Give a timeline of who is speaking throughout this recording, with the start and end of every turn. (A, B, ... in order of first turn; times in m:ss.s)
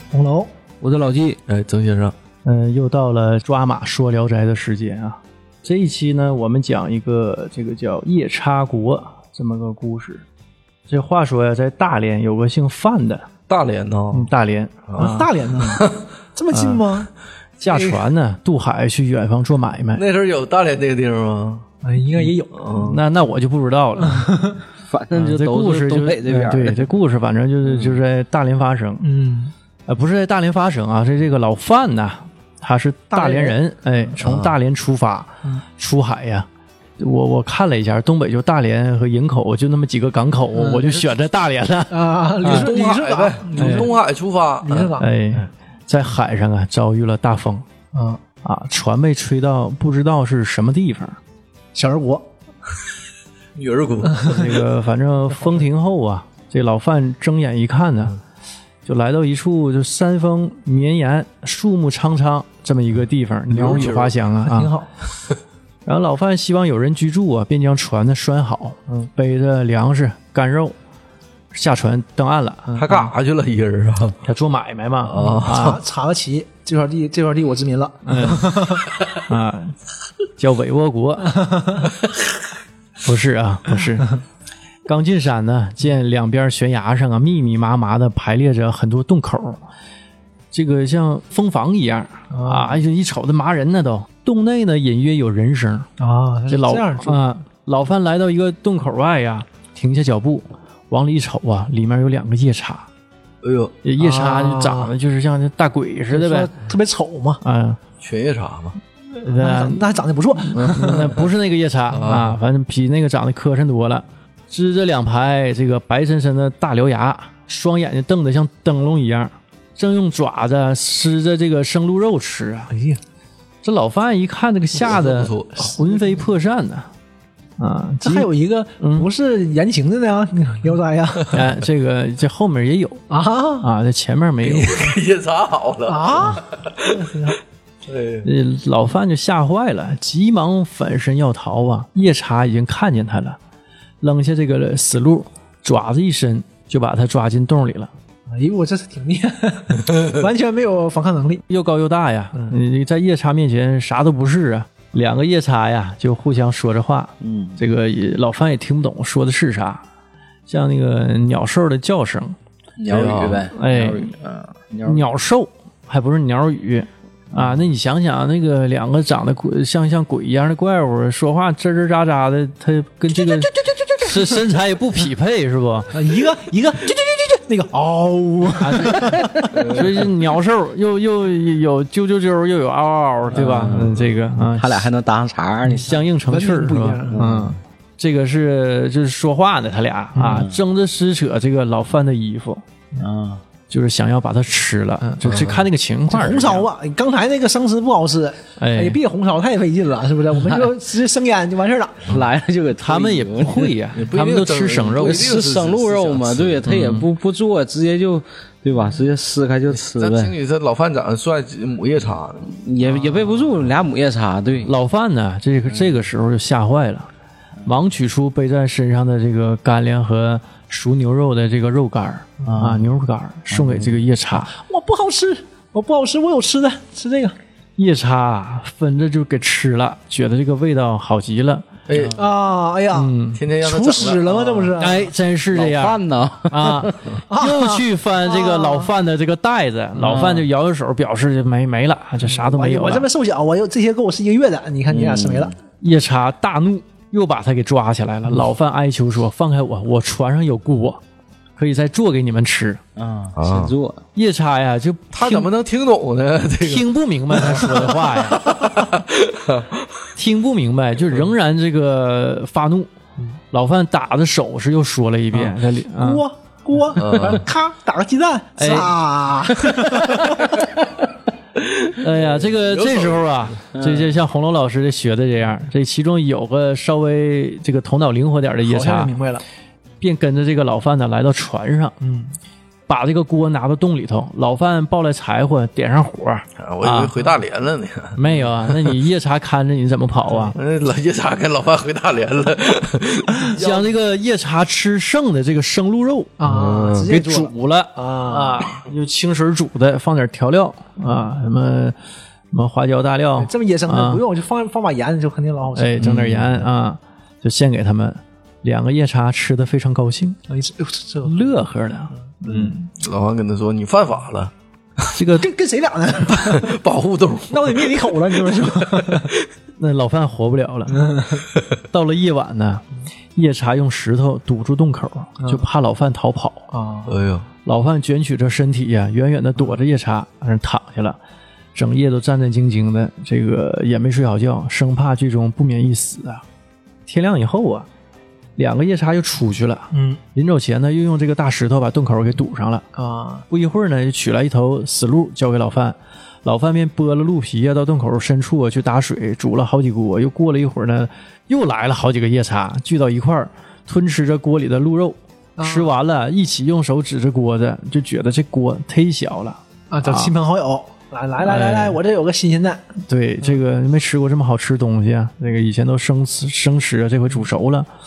0:00.1-0:00.5 A
0:00.8-0:01.4 B
0:01.5-0:02.1 C
0:02.4-0:10.2 D
0:10.9-0:13.3 D
0:13.5-0:14.3 C
0:14.1-0:15.3 D
0:15.0-0:17.1 A
0:16.5-0:16.8 D
0:17.6-0:20.0 D
0:17.7-0:18.0 A
0:19.9-0:21.6 C
0:21.8-0:22.6 A
0:22.5-0:23.0 C
0:22.7-0:24.3 D
0:24.1-0:24.6 A
0:24.9-0:26.9 B
0:25.1-0:29.0 D
0:29.0-0:29.5 A
0:29.9-0:36.5 D
0:33.1-0:33.6 A
0:34.2-0:34.5 C
0:37.0-0:42.7 D
0:40.5-0:41.0 A
0:41.9-0:44.0 A
0:42.4-0:44.9 C
0:43.5-0:43.9 D
0:44.6-0:45.1 A
0:45.0-0:47.6 D
0:47.9-0:48.2 A
0:48.4-0:51.2 D
0:51.7-0:52.3 A
0:53.5-0:54.4 C
0:54.2-0:58.2 D
0:58.8-1:04.7 D
1:03.5-1:04.1 C
1:04.4-1:04.9 A
1:05.8-1:10.7 D
1:11.5-1:13.0 D
1:12.7-1:13.1 A
1:12.7-1:14.2 C
1:14.2-1:15.8 D
1:15.0-1:15.7 C
1:15.2-1:18.8 A
1:18.0-1:19.8 D
1:20.4-1:21.4 D
1:21.4-1:21.8 A
1:23.0-1:24.1 D
1:24.8-1:29.6 D
1:30.5-1:35.9 D
1:32.3-1:32.8 A
1:36.0-1:37.2 A
1:36.5-1:42.9 D
1:43.4-1:43.7 C
1:43.8-1:46.5 D
1:44.0-1:44.9 A
1:46.1-1:47.4 A
1:47.4-1:47.8 D
1:48.0-1:48.8 C
1:49.1-1:49.9 D
1:49.2-1:51.1 A
1:50.5-2:02.7 D
1:51.9-1:52.4 C
2:02.7-2:03.0 A
2:03.6-2:06.9 D
2:04.8-2:05.7 C
2:05.7-2:06.1 A
2:07.6-2:08.3 D
2:08.0-2:11.5 A
2:08.8-2:09.1 D
2:11.3-2:13.0 D
2:13.1-2:13.7 A
2:13.6-2:14.9 D
2:14.4-2:16.7 C
2:15.8-2:17.4 A
2:17.8-2:18.3 C
2:18.2-2:23.4 D
2:24.0-2:27.9 D
2:28.3-2:31.4 A
2:31.5-2:39.8 D
2:37.2-2:37.6 B
2:40.5-2:42.3 D
2:42.8-2:45.0 B
2:42.9-2:43.5 C
2:43.5-2:44.1 D
2:44.8-2:56.0 D
2:53.2-2:54.4 A
2:55.9-2:59.8 A
2:58.6-3:04.9 D
3:03.3-3:05.9 B
3:05.7-3:12.6 D
3:05.9-3:07.3 A
3:07.1-3:07.6 B
3:10.1-3:10.4 A
3:10.2-3:10.6 B
3:13.0-3:13.4 B
3:13.7-3:16.7 D
3:15.2-3:15.6 C
3:16.1-3:22.1 A
3:18.6-3:19.0 D
3:22.1-3:23.8 B
3:22.8-3:25.3 D
3:23.9-3:26.8 C
3:25.0-3:30.4 B
3:26.7-3:27.0 D
3:29.7-3:32.5 C
3:32.5-3:34.7 B
3:34.6-3:37.1 D
3:37.6-3:44.5 D
3:42.4-3:42.8 B
3:43.5-3:43.9 B
3:44.5-3:47.4 A
3:47.8-3:51.7 D
3:51.9-3:52.2 C
3:51.9-3:52.2 B
3:52.2-3:55.1 A
3:52.9-3:53.4 D
3:53.3-3:54.8 C
3:54.8-4:03.1 D
3:55.5-3:57.1 B
3:57.3-3:58.9 A
4:00.0-4:00.5 B
4:02.2-4:05.5 A
4:04.9-4:05.5 B
4:05.8-4:11.0 D
4:11.6-4:12.8 D
4:13.0-4:14.0 B
4:13.4-4:13.7 C
4:14.1-4:15.5 D
4:15.1-4:17.8 C
4:16.6-4:18.6 D
4:18.5-4:19.8 C
4:20.2-4:22.9 D
4:23.5-4:26.2 D
4:25.9-4:30.6 A
4:27.0-4:27.4 C
4:28.6-4:28.9 D
4:31.6-4:33.4 C
4:32.0-4:39.1 D
4:33.7-4:34.1 B
4:38.6-4:39.4 A
4:40.0-4:41.9 D
4:42.0-4:42.3 A
4:42.9-4:47.2 D
4:46.6-4:48.2 C
4:48.2-4:50.5 D
4:50.5-4:53.9 C
4:53.4-4:56.4 D
4:56.4-4:58.8 A
4:56.4-4:57.1 C
4:57.0-5:02.0 D
5:02.5-5:04.2 D
5:03.4-5:06.2 A
5:05.7-5:10.4 D
5:10.5-5:11.6 A
5:11.2-5:12.9 D
5:13.0-5:14.5 C
5:15.1-5:15.5 D
5:15.4-5:16.7 A
5:16.5-5:19.2 C
5:17.5-5:19.3 A
5:19.8-5:21.1 D
5:20.9-5:21.4 A
5:21.9-5:22.8 D
5:23.3-5:26.7 D
5:25.4-5:25.6 A
5:26.7-5:27.1 A
5:27.1-5:27.4 C
5:27.6-5:31.2 D
5:31.7-5:36.4 D
5:37.1-5:37.9 D
5:38.6-5:42.8 D
5:39.9-5:40.2 A
5:42.9-5:43.4 A
5:43.5-6:00.3 D
5:55.6-5:55.9 A
5:59.9-6:02.8 A
6:01.4-6:02.0 D
6:03.0-6:07.9 D